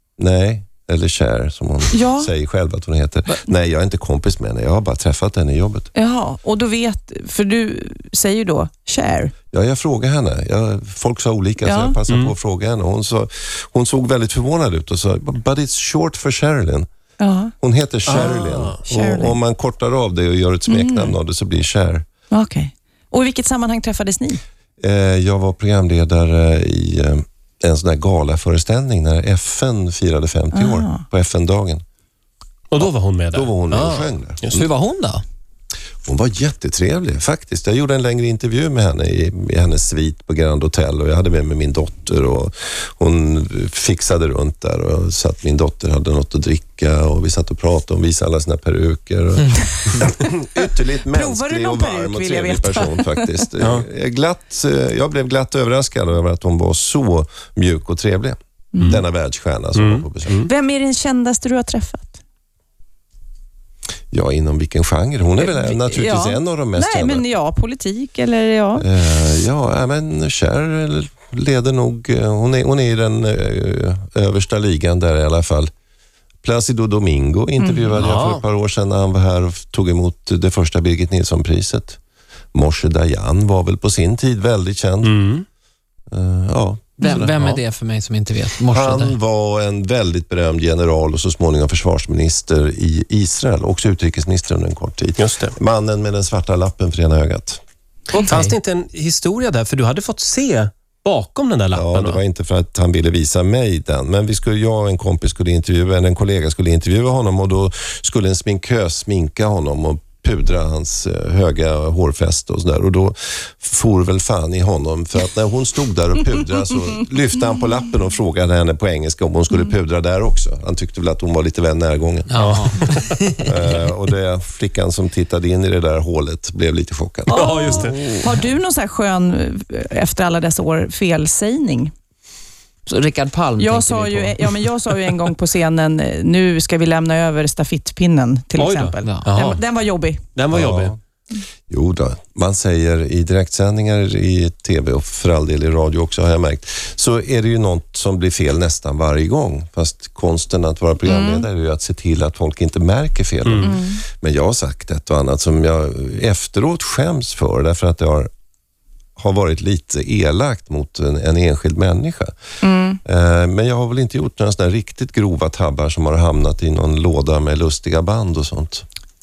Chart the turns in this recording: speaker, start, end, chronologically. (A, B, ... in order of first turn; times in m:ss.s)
0:00.2-0:05.9 A
0:01.9-0:02.3 B
0:05.9-0:09.3 B
0:09.5-0:16.9 A
0:11.6-0:12.0 B
0:12.1-0:12.3 C
0:17.2-0:17.5 B
0:17.6-0:22.0 A
0:18.1-0:18.8 C
0:18.8-0:19.4 B
0:20.7-0:21.1 B
0:22.3-0:24.4 B
0:24.8-0:31.8 A
0:30.5-0:31.0 B
0:32.7-0:34.5 C
0:32.8-0:34.7 A
0:34.4-0:35.2 D
0:36.0-1:00.4 A
0:51.1-0:53.4 B
0:58.7-0:59.0 B
0:59.7-1:00.5 C
1:00.4-1:02.2 B
1:04.1-1:07.2 A
1:05.4-1:08.8 B
1:08.8-1:15.7 A
1:16.4-1:22.0 A
1:17.6-1:18.0 B
1:18.0-1:18.4 C
1:22.5-1:25.2 A
1:25.0-1:25.4 C
1:26.1-1:27.3 A
1:27.0-1:29.2 D
1:28.7-1:37.6 A
1:35.2-1:35.5 C
1:38.1-1:38.5 D
1:38.2-1:42.2 C
1:41.7-2:02.4 A
2:02.3-2:03.4 D
2:02.4-2:03.3 C
2:03.4-2:07.4 A
2:07.3-2:11.9 B
2:07.3-2:08.0 C
2:07.8-2:08.3 D
2:12.9-2:14.7 D
2:13.6-2:20.2 B
2:18.6-2:19.6 C
2:20.3-2:20.9 C
2:20.5-2:21.0 A
2:21.7-2:38.3 A
2:31.0-2:31.4 B
2:33.4-2:33.7 C
2:33.6-2:34.0 B
2:39.2-2:42.3 A
2:42.6-2:43.0 B
2:43.0-2:48.8 A